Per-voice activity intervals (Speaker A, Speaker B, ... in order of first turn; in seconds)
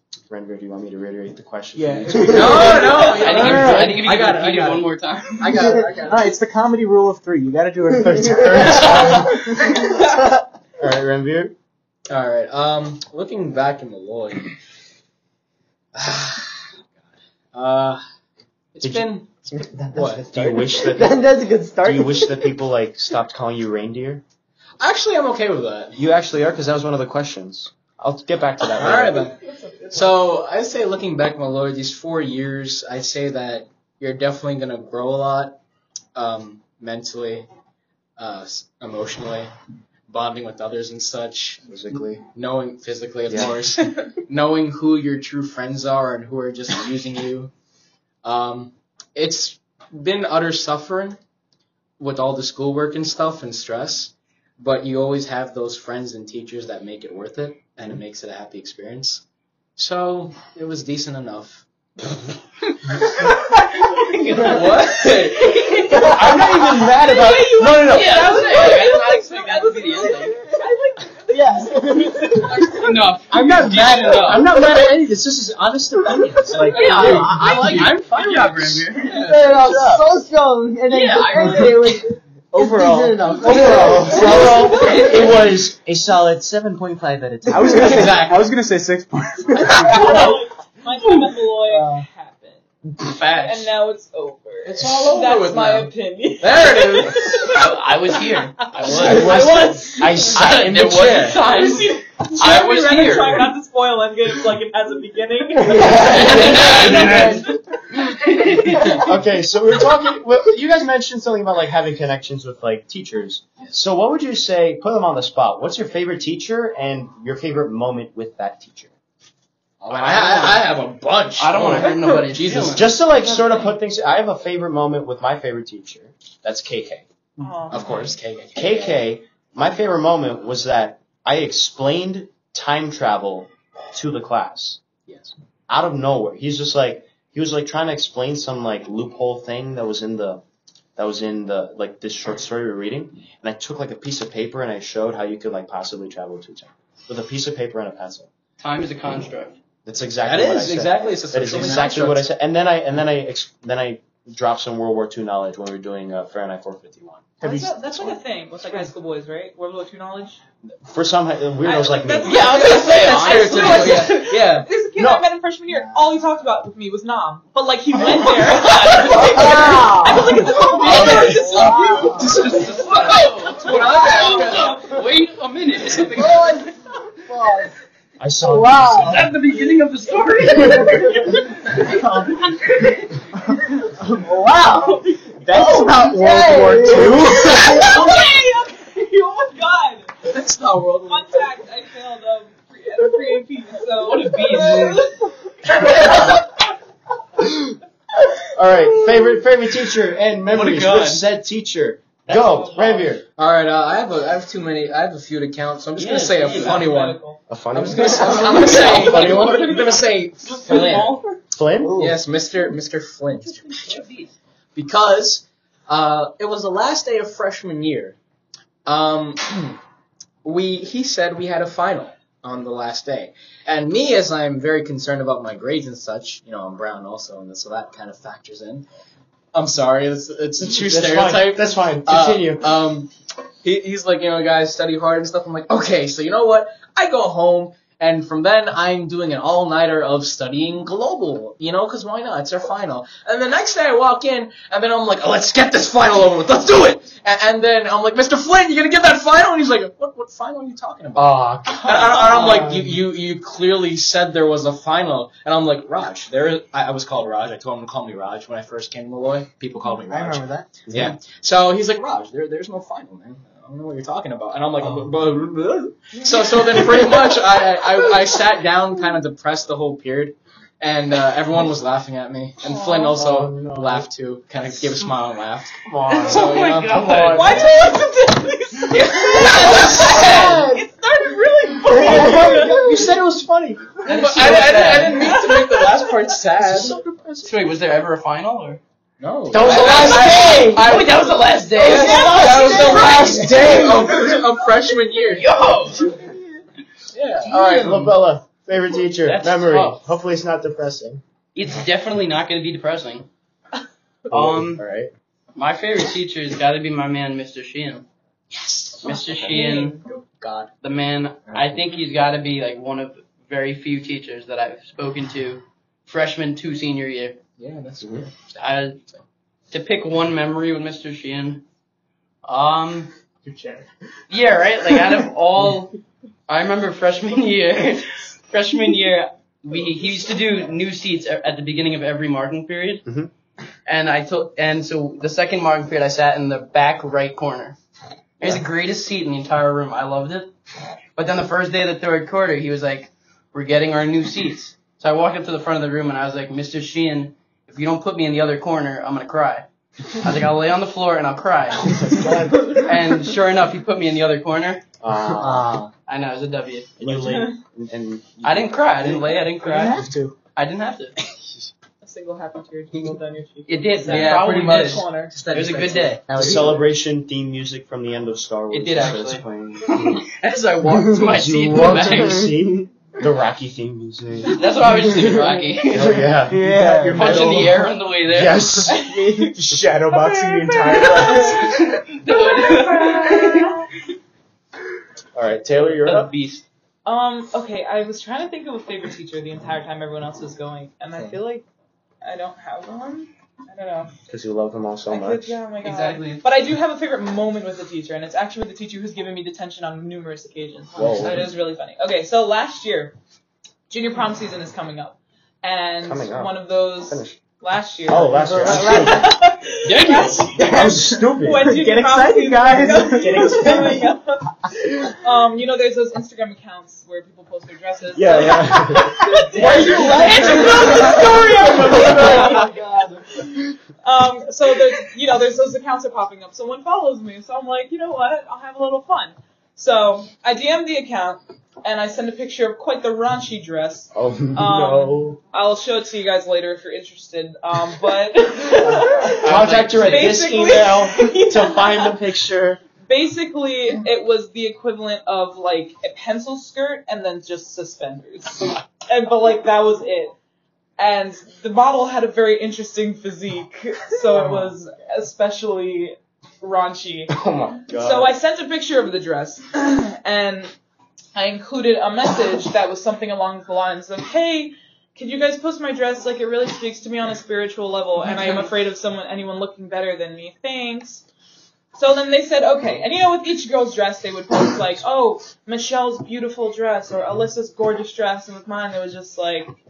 Speaker A: 0.3-3.5, 8.0-10.0, 10.8-11.5, 18.8-19.2, 20.3-24.2, 25.9-29.3, 41.7-42.2, 43.3-43.5, 66.0-68.4, 73.3-77.9, 83.5-88.2, 98.9-101.3, 105.7-107.4, 108.9-118.9, 119.9-120.5, 122.7-127.0, 128.5-134.8, 135.7-140.4, 140.9-148.3, 149.8-157.3, 160.7-162.5, 164.9-165.2, 170.9-171.3, 178.2-179.3, 181.9-182.3, 186.9-187.4, 198.5-203.2, 207.5-209.7, 211.5-212.0, 230.6-232.8, 251.1-253.0, 260.9-261.1, 273.1-274.1, 275.8-276.6, 279.4-280.8, 281.9-284.8, 286.5-287.5, 289.5-291.0, 297.4-301.2, 304.3-305.1, 333.1-333.3, 351.9-352.7, 355.0-355.8, 357.0-359.3, 366.3-370.2, 370.8-374.6, 375.1-377.7, 378.2-379.1, 385.3-386.3, 394.3-395.6, 401.0-401.5, 406.0-407.4, 408.1-409.2, 410.6-411.7, 418.1-420.3, 434.1-435.4, 439.3-442.8, 457.3-458.4
Speaker B: 1.8-4.0, 6.0-9.1, 82.5-84.3, 87.5-90.2, 127.4-127.7, 157.4-158.1, 183.9-187.9, 323.4-323.9, 359.6-360.4, 376.5-377.9, 379.1-381.8, 411.6-414.1
Speaker C: 2.2-6.3, 12.1-14.5, 15.9-16.8, 17.5-18.0, 18.7-20.2, 24.8-26.0, 28.7-35.6, 36.1-37.5, 38.2-39.5, 40.1-47.5, 48.2-51.2, 52.0-59.2, 59.8-61.6, 63.0-65.9, 73.6-74.3, 76.5-80.0, 87.7-88.4, 94.6-97.3, 98.9-99.7, 100.8-101.4, 106.9-107.2, 119.8-122.9, 127.7-129.1, 135.1-135.3, 150.2-152.3, 162.4-164.7, 170.4-174.8, 190.2-191.4, 203.3-211.2, 211.9-214.0, 214.8-218.2, 218.8-219.8, 220.4-228.8, 229.5-233.1, 233.6-277.7, 279.6-280.4, 284.0-287.0, 289.2-295.6, 297.1-298.1, 308.6-309.6, 310.2-310.7, 317.6-319.2, 355.4-355.9, 364.0-366.8
Speaker D: 3.0-5.8, 63.9-66.1, 67.6-70.4, 72.5-74.5, 76.7-79.3, 80.9-82.0, 84.7-85.2, 93.0-93.7, 97.5-103.5, 106.0-107.4, 108.1-109.0, 121.4-122.9, 148.6-149.6, 162.2-164.2, 168.4-169.6, 170.6-176.6, 179.0-183.1, 194.0-195.1, 195.8-196.2, 200.5-201.2, 202.3-203.1, 205.9-206.9, 208.6-209.6, 210.6-211.2, 213.6-214.3, 276.1-277.8, 278.9-280.6, 284.0-285.4, 287.4-288.8, 289.6-293.8, 295.3-296.1, 299.2-300.1, 301.5-303.3, 304.3-304.8, 305.5-308.1, 309.0-310.0, 310.8-317.4, 318.5-319.0, 319.7-321.6, 322.4-323.1, 324.3-333.1, 333.9-337.8, 338.4-340.5, 341.1-352.0, 352.7-354.8, 356.1-356.9, 358.4-361.1, 363.7-366.2, 368.7-372.5, 374.5-376.3, 377.1-378.8, 381.0-383.7, 386.0-386.6, 395.8-396.4, 409.8-410.7, 420.0-421.2, 439.2-440.4
Speaker E: 8.1-10.3, 19.5-22.5, 65.9-66.3, 71.3-72.7, 79.2-85.1, 89.6-90.4, 91.7-92.0, 105.7-107.3, 165.7-166.1, 169.1-172.4, 176.1-177.7, 178.4-179.3, 180.6-181.3, 184.2-188.0, 211.8-212.2, 260.1-260.7, 281.9-283.0, 293.3-293.6, 366.4-366.8, 376.5-377.4, 391.1-391.4, 408.3-409.3, 413.4-413.8, 419.5-423.5
Speaker F: 43.8-44.1, 67.0-72.9, 84.1-85.3, 89.6-92.6, 93.3-97.7, 98.8-100.4, 101.2-108.0, 123.2-123.7, 127.4-128.1, 157.4-160.4, 161.6-175.0, 184.8-185.2, 187.4-190.3, 191.1-196.3, 206.3-207.4, 208.0-211.3, 272.7-273.1, 277.3-282.9, 284.8-286.4, 291.9-293.2, 309.1-310.0, 357.2-357.5, 362.0-365.3, 378.9-379.6, 380.1-383.9, 387.0-391.6, 392.2-394.1, 395.1-403.1, 403.9-422.8, 424.0-442.2, 443.0-450.3, 451.0-457.4, 457.9-460.7, 461.3-471.2, 471.9-479.7